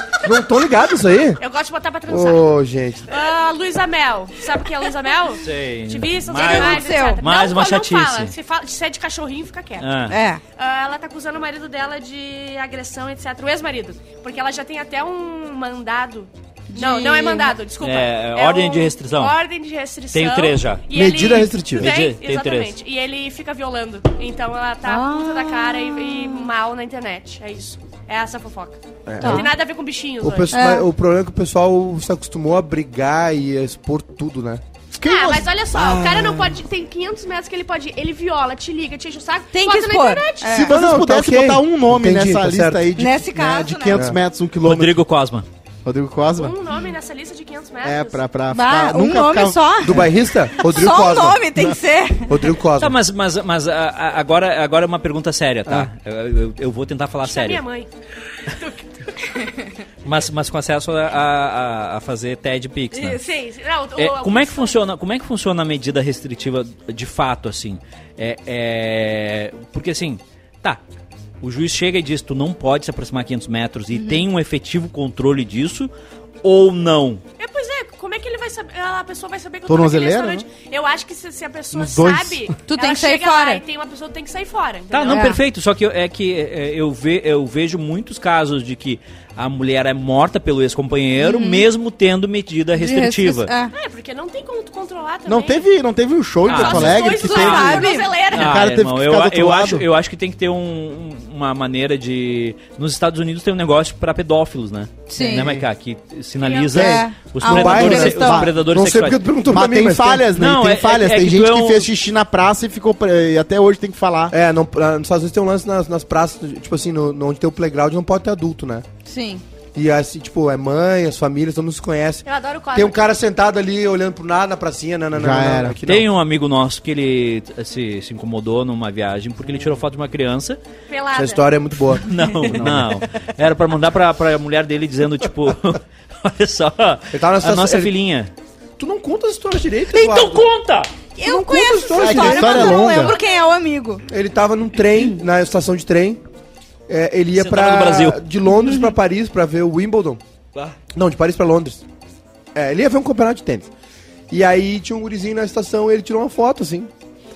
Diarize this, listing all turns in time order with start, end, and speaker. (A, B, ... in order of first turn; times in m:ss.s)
0:00.2-0:01.4 A
0:01.4-0:02.4 B
0:02.1-0:03.1 A
0:03.1-0:09.9 B
0:05.4-0:08.3 C
0:06.3-0:07.2 D
0:09.8-0:10.2 C
0:10.1-0:10.4 D
0:10.6-0:30.5 B
0:16.7-0:17.5 D
0:17.8-0:19.4 C
0:20.1-0:20.9 C
0:20.9-0:21.9 A
0:21.8-0:22.8 C
0:24.8-0:26.5 D
0:29.0-0:29.6 A
0:29.2-0:29.5 D
0:30.2-0:34.6 A
0:30.5-0:30.9 D
0:35.0-0:36.6 E
0:35.0-0:40.6 B
0:39.5-0:40.7 D
0:40.4-0:45.0 E
0:40.6-0:42.9 A
0:43.0-0:44.0 D
0:43.9-0:44.2 A
0:44.6-0:45.4 C
0:45.8-0:46.6 E
0:46.4-0:48.2 B
0:47.8-0:50.1 E
0:48.5-0:52.3 D
0:49.8-0:51.4 A
0:52.3-0:52.9 A
0:52.8-0:57.6 C
0:57.2-0:57.9 B
1:00.0-1:03.2 C
1:03.0-1:04.8 B
1:04.0-1:10.8 C
1:11.4-1:15.9 C
1:13.9-1:14.2 D
1:16.4-1:17.2 C
1:17.4-1:25.3 B
1:19.7-1:20.4 E
1:21.7-1:22.5 E
1:22.6-1:23.6 D
1:24.9-1:33.5 C
1:25.1-1:25.4 D
1:31.2-1:31.7 D
1:32.7-1:33.7 D
1:33.7-1:35.6 B
1:35.2-1:39.9 E
1:36.4-1:38.6 B
1:36.4-1:49.3 C
1:37.1-1:38.2 D
1:45.1-1:45.5 D
1:45.3-1:45.6 A
1:46.4-1:47.0 B
1:46.7-1:48.4 D
1:46.8-1:50.3 A
1:48.2-1:54.3 E
1:50.3-1:51.9 C
1:54.3-1:58.8 A
1:59.0-1:59.4 D
1:59.7-2:06.1 A
2:02.2-2:03.0 B
2:05.1-2:05.8 E
2:05.8-2:10.6 C
2:10.9-2:11.5 B
2:11.1-2:12.0 A
2:12.0-2:18.3 C
2:12.5-2:12.9 E
2:17.1-2:17.9 A
2:18.8-2:20.4 A
2:19.9-2:20.9 C
2:21.2-2:24.0 D
2:21.2-2:23.1 A
2:21.9-2:23.1 E
2:24.1-2:26.2 A
2:26.9-2:30.2 A
2:27.3-2:28.2 C
2:30.9-2:31.8 A
2:32.5-2:33.7 A
2:34.3-2:36.9 A